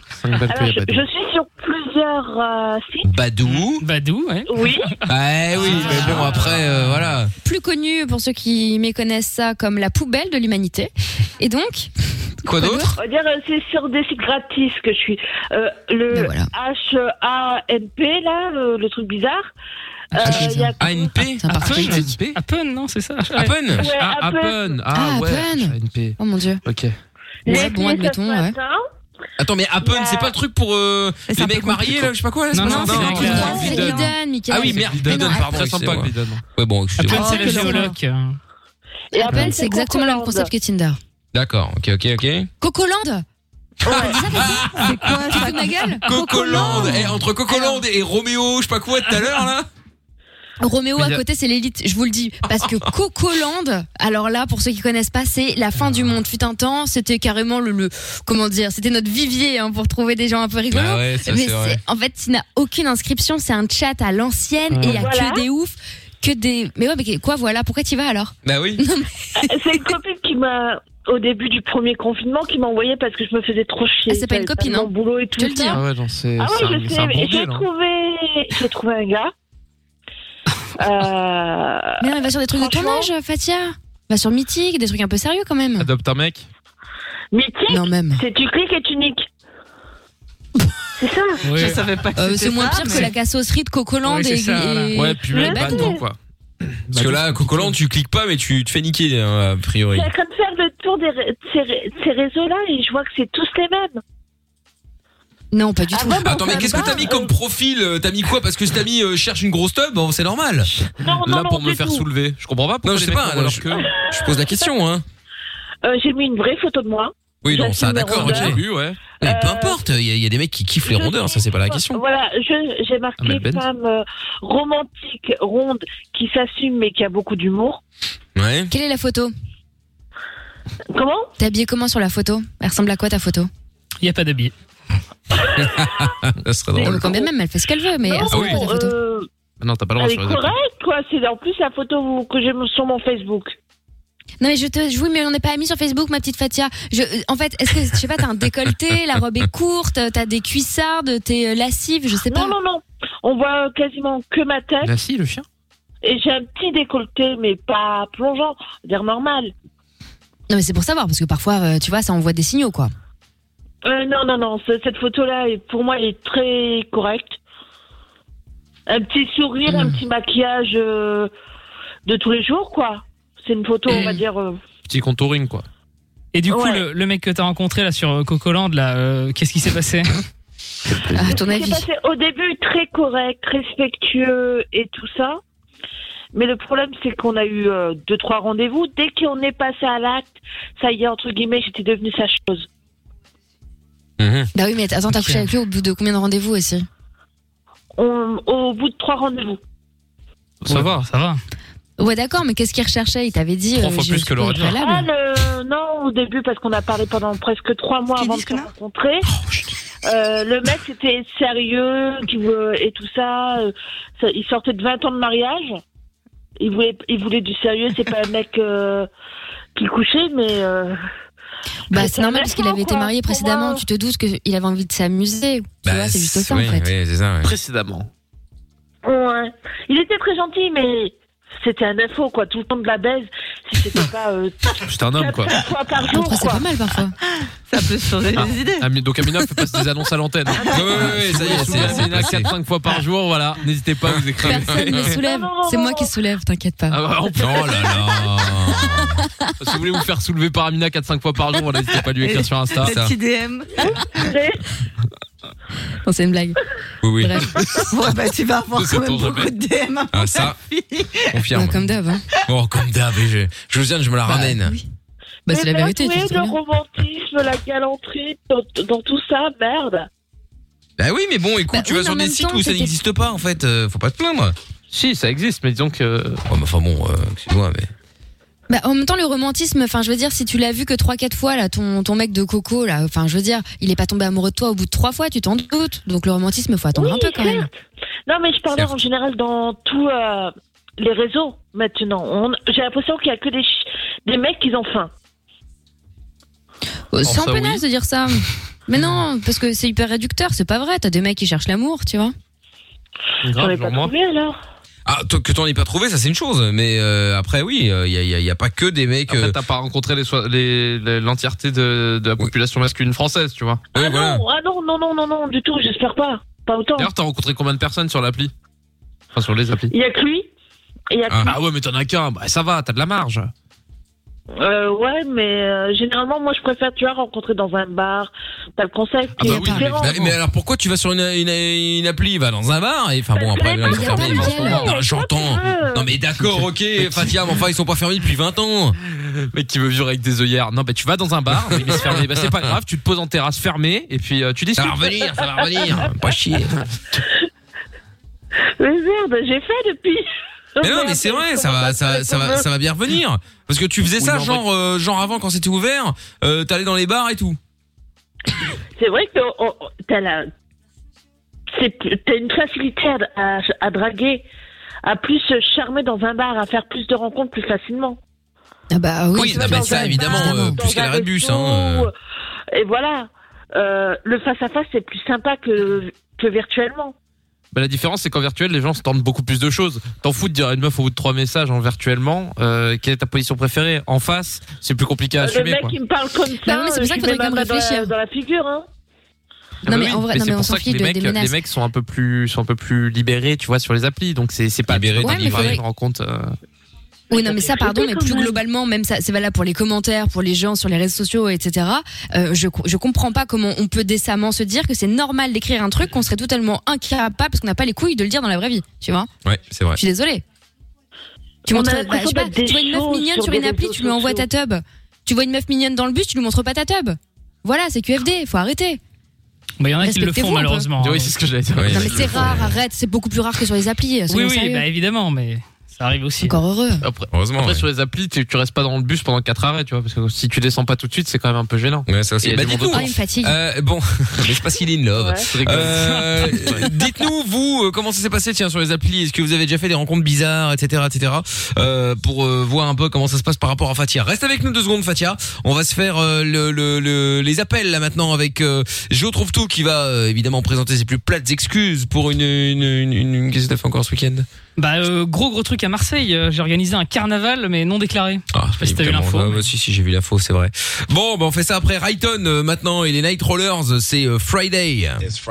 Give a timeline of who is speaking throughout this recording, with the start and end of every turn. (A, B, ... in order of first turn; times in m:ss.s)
0:00.1-0:01.1 A
0:00.5-0:03.1 B
0:03.0-0:03.8 C
0:03.4-0:04.9 D
0:04.5-0:04.9 B
0:05.1-0:07.3 C
0:05.6-0:06.8 D
0:05.7-0:06.6 A
0:07.4-0:12.9 E
0:12.4-0:13.0 C
0:13.0-0:19.5 B
0:16.1-0:16.5 E
0:20.1-0:21.1 B
0:20.2-0:20.7 E
0:20.2-0:21.5 C
0:21.4-0:22.2 E
0:21.5-0:23.5 D
0:21.6-0:22.4 A
0:23.4-0:23.9 C
0:23.8-0:24.8 B
0:23.8-0:27.0 A
0:24.9-0:26.6 E
0:27.5-0:28.8 B
0:27.5-0:28.6 E
0:29.4-0:37.7 C
0:29.8-0:30.4 B
0:31.3-0:32.0 F
0:32.5-0:33.7 D
0:32.6-0:35.6 E
0:33.2-0:34.0 F
0:33.4-0:33.7 B
0:34.6-0:36.4 A
0:37.0-0:38.4 D
0:37.1-0:37.9 E
0:37.1-0:38.0 F
0:39.1-0:40.5 B
0:39.1-0:41.0 E
0:41.3-0:42.5 C
0:42.6-0:43.2 E
0:43.8-0:44.2 B
0:43.8-0:47.8 E
0:44.0-0:49.7 C
0:44.8-0:45.9 F
0:50.6-1:09.4 E
0:51.0-0:51.2 A
1:00.7-1:01.8 C
1:04.7-1:05.0 A
1:04.9-1:05.4 B
1:08.4-1:08.8 C
1:09.4-1:15.9 B
1:14.1-1:15.8 E
1:15.7-1:17.7 A
1:16.4-1:19.3 B
1:20.8-1:23.1 B
1:22.0-1:25.9 E
1:25.8-1:26.5 A
1:27.3-1:29.3 B
1:27.7-1:28.2 E
1:31.0-1:31.4 B
1:31.4-1:31.8 D
1:31.6-1:33.1 F
1:32.2-1:36.0 E
1:34.0-1:34.9 D
1:34.9-1:37.7 A
1:35.3-1:36.0 B
1:36.9-1:40.1 C
1:39.9-1:44.0 B
1:45.5-1:47.1 E
1:45.9-1:47.3 B
1:46.2-1:50.7 C
1:50.7-1:53.9 A
1:51.0-1:52.1 B
1:52.8-1:55.0 C
1:53.8-1:54.6 B
1:55.8-1:58.6 B
1:57.4-1:58.6 C
1:58.1-1:59.0 A
1:59.2-2:02.0 C
1:59.2-1:59.8 B
2:00.8-2:07.8 B
2:03.2-2:03.6 A
2:08.4-2:08.7 C
2:08.7-2:09.3 E
2:10.9-2:11.3 B
2:11.4-2:13.5 E
2:14.0-2:14.5 D
2:15.4-2:15.7 B
2:15.5-2:17.1 C
2:16.8-2:18.9 E
2:16.8-2:17.3 B
2:18.0-2:19.3 B
2:18.3-2:18.6 C
2:19.6-2:20.6 A
2:20.0-2:23.6 B
2:24.4-2:32.5 E
2:32.2-2:35.0 B
2:34.8-2:35.4 A
2:36.0-2:39.5 B
2:40.5-2:42.9 E
2:43.8-2:47.4 B
2:48.9-2:51.3 B
2:49.7-2:50.0 E
2:52.1-2:54.6 B
2:53.9-2:54.2 D
2:54.9-2:55.7 A
2:56.3-3:00.1 D
2:56.5-2:56.8 B
3:01.1-3:01.8 E
3:01.2-3:05.4 B
3:06.3-3:12.7 B
3:14.2-3:14.5 C
3:14.6-3:16.9 E
3:15.1-3:15.4 D
3:18.0-3:19.6 B
3:20.6-3:21.1 A
3:20.7-3:21.4 D
3:22.0-3:25.1 E
3:23.8-3:24.8 A
3:24.8-3:29.3 B
3:28.2-3:28.7 F
3:30.0-3:35.8 B
3:36.6-3:39.1 B
3:39.8-3:41.0 B
3:41.9-3:43.8 B
3:41.9-3:46.9 E
3:45.8-3:47.5 C
3:47.4-3:48.1 A
3:49.0-3:56.7 B
3:54.9-3:55.6 A
3:56.1-3:57.2 E
3:57.7-3:58.9 F
3:58.3-4:05.2 A
4:00.6-4:01.4 B
4:00.7-4:02.5 C
4:04.4-4:07.0 E
4:05.1-4:06.1 B
4:06.9-4:07.8 A
4:07.4-4:09.2 C
4:09.6-4:13.0 A
4:12.2-4:14.0 F
4:12.8-4:13.1 C
4:13.8-4:14.6 B
4:16.0-4:16.6 E
4:17.0-4:17.5 C
4:17.2-4:17.6 E
4:17.9-4:21.3 F
4:18.8-4:19.5 A
4:20.1-4:20.6 C
4:21.3-4:21.8 C
4:21.5-4:22.2 E
4:22.5-4:24.8 C
4:24.3-4:24.8 E
4:25.5-4:26.6 E
4:25.5-4:30.1 B
4:31.0-4:34.6 C
4:31.7-4:32.9 E
4:34.9-4:36.4 A
4:36.5-4:37.9 C
4:38.7-4:47.7 E
4:47.0-4:47.8 B
4:48.3-4:55.1 B
4:57.1-5:02.3 E
4:57.2-4:57.8 A
5:03.4-5:04.1 A
5:03.6-5:04.6 B
5:05.1-5:09.6 C
5:09.3-5:13.9 A
5:13.9-5:17.1 B
5:14.0-5:14.4 C
5:17.0-5:18.5 A
5:19.4-5:19.9 A
5:19.9-5:20.5 B
5:21.1-5:21.6 B
5:21.3-5:21.6 C
5:21.4-5:23.5 A
5:24.6-5:30.2 B
5:29.4-5:30.4 A
5:29.4-5:29.9 E
5:30.0-5:39.0 C
5:33.3-5:36.1 B
5:33.9-5:34.9 E
5:36.4-5:37.4 A
5:39.4-5:45.2 A
5:41.6-5:42.8 C
5:44.8-5:46.8 C
5:48.8-5:50.2 B
5:50.8-5:52.7 B
5:50.8-5:57.6 C
5:54.2-5:54.6 A
5:59.0-6:00.5 B
6:01.7-6:04.5 B
6:05.0-6:08.2 B
6:08.9-6:10.8 E
6:09.4-6:12.1 C
6:09.4-6:12.1 B
6:12.7-6:17.2 B
6:17.7-6:26.0 A
6:25.4-6:28.9 B
6:26.6-6:28.1 E
6:29.9-6:31.6 E
6:29.9-6:36.6 A
6:34.9-6:35.8 C
6:35.2-6:35.8 E
6:37.3-6:49.3 E
6:37.3-6:38.6 B
6:49.4-6:50.0 C
6:50.0-6:50.4 E
6:51.7-6:54.5 B
6:51.7-6:59.0 E
6:59.8-7:01.4 D
7:00.0-7:00.9 E
7:01.0-7:02.6 A
7:01.8-7:02.8 C
7:01.9-7:04.8 E
7:04.3-7:06.6 D
7:06.4-7:07.0 E
7:07.0-7:13.1 A
7:07.3-7:07.8 C
7:12.1-7:34.5 C
7:12.9-7:13.6 E
7:15.2-7:15.4 B
7:15.5-7:16.9 A
7:34.8-7:39.6 D
7:38.5-7:45.2 C